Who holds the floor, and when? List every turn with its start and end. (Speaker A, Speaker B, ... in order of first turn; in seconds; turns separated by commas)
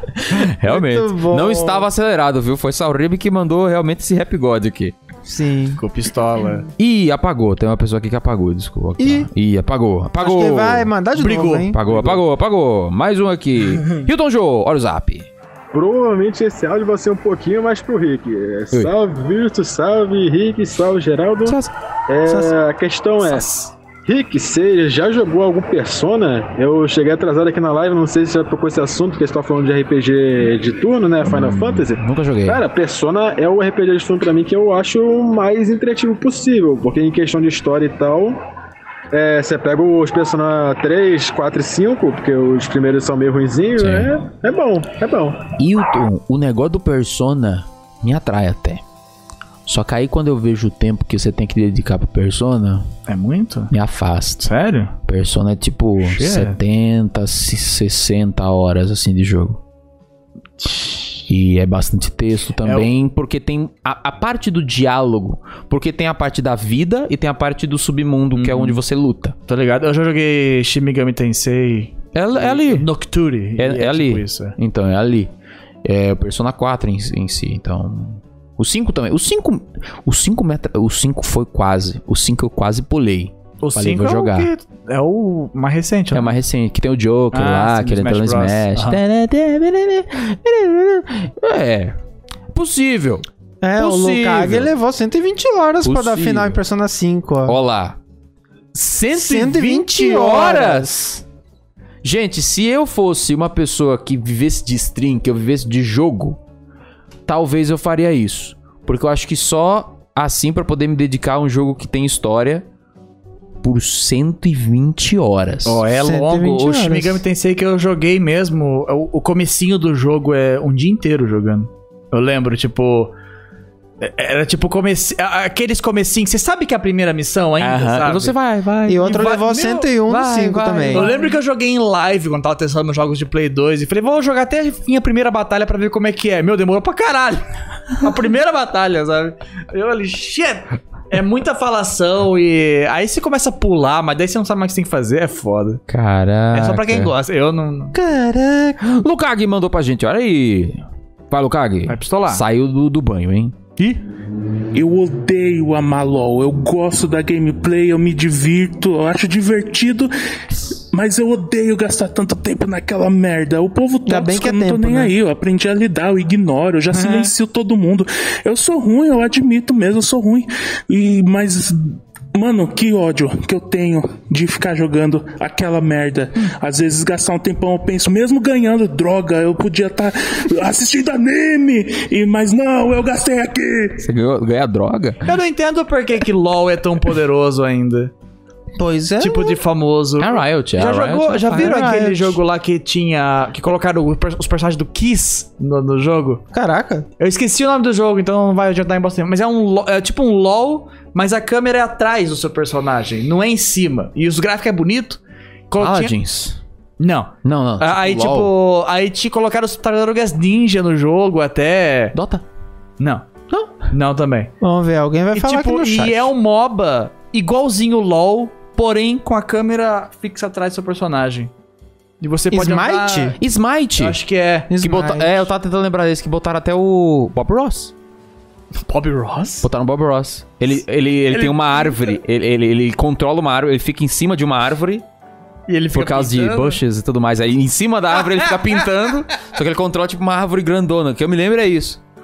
Speaker A: 0.3-4.9, Speaker B: 0.4-1.9, Speaker B: 5.2-5.8, Speaker C: 5.8-6.7, Speaker A: 6.8-10.9, Speaker B: 9.0-9.3, Speaker B: 10.2-11.8, Speaker C: 11.2-12.2, Speaker A: 11.7-15.3, Speaker D: 15.7-23.4, Speaker A: 21.4-21.7, Speaker A: 22.3-22.5, Speaker D: 24.1-38.4, Speaker A: 31.2-32.6, Speaker D: 39.1-45.4, Speaker A: 43.8-44.1, Speaker A: 45.6-48.8, Speaker A: 49.7-52.9, Speaker C: 53.1-53.7, Speaker A: 53.7-54.5, Speaker C: 54.4-54.9, Speaker A: 55.0-59.6, Speaker C: 56.0-56.6, Speaker A: 60.7-69.3, Speaker C: 62.6-62.9, Speaker C: 68.3-68.8, Speaker C: 69.5-74.6, Speaker A: 72.1-72.9, Speaker A: 73.6-75.3, Speaker A: 75.8-84.5, Speaker C: 83.6-86.4, Speaker A: 86.1-92.0, Speaker C: 87.3-89.0, Speaker A: 92.5-93.2, Speaker B: 93.6-97.6, Speaker A: 93.8-94.7, Speaker A: 95.8-96.6, Speaker A: 97.5-98.0, Speaker A: 98.7-100.9, Speaker B: 99.1-101.2, Speaker A: 102.0-106.4, Speaker A: 107.3-112.7, Speaker A: 113.6-115.8, Speaker C: 115.7-123.1, Speaker B: 116.0-117.2, Speaker C: 124.0-128.3, Speaker A: 127.6-129.4, Speaker B: 128.9-131.1, Speaker C: 129.0-129.9, Speaker A: 130.1-131.2, Speaker C: 130.9-137.4, Speaker C: 138.0-145.8, Speaker A: 145.9-147.1, Speaker C: 146.5-147.9, Speaker B: 147.9-148.8, Speaker A: 148.8-150.8, Speaker A: 151.3-153.6, Speaker C: 151.9-152.4, Speaker E: 154.7-160.1, Speaker E: 160.9-184.1, Speaker B: 164.1-165.1, Speaker A: 184.0-185.2, Speaker C: 185.2-188.1, Speaker B: 188.8-189.6, Speaker C: 189.2-196.4, Speaker A: 190.2-191.8, Speaker B: 191.5-192.4, Speaker B: 196.5-197.1, Speaker C: 197.2-206.1, Speaker A: 205.8-206.6, Speaker C: 207.0-212.2, Speaker A: 207.4-208.5, Speaker A: 212.2-212.4, Speaker C: 213.0-213.3, Speaker A: 213.5-213.8, Speaker C: 213.8-214.5, Speaker B: 214.6-216.3, Speaker C: 215.3-221.5, Speaker C: 222.2-223.4, Speaker B: 222.5-223.4, Speaker A: 223.4-224.2, Speaker C: 224.0-224.7, Speaker B: 224.7-225.5, Speaker A: 224.8-227.9, Speaker C: 228.8-229.7, Speaker A: 229.6-235.1, Speaker C: 231.3-232.2, Speaker C: 235.7-236.8, Speaker A: 235.9-242.0, Speaker C: 238.4-238.8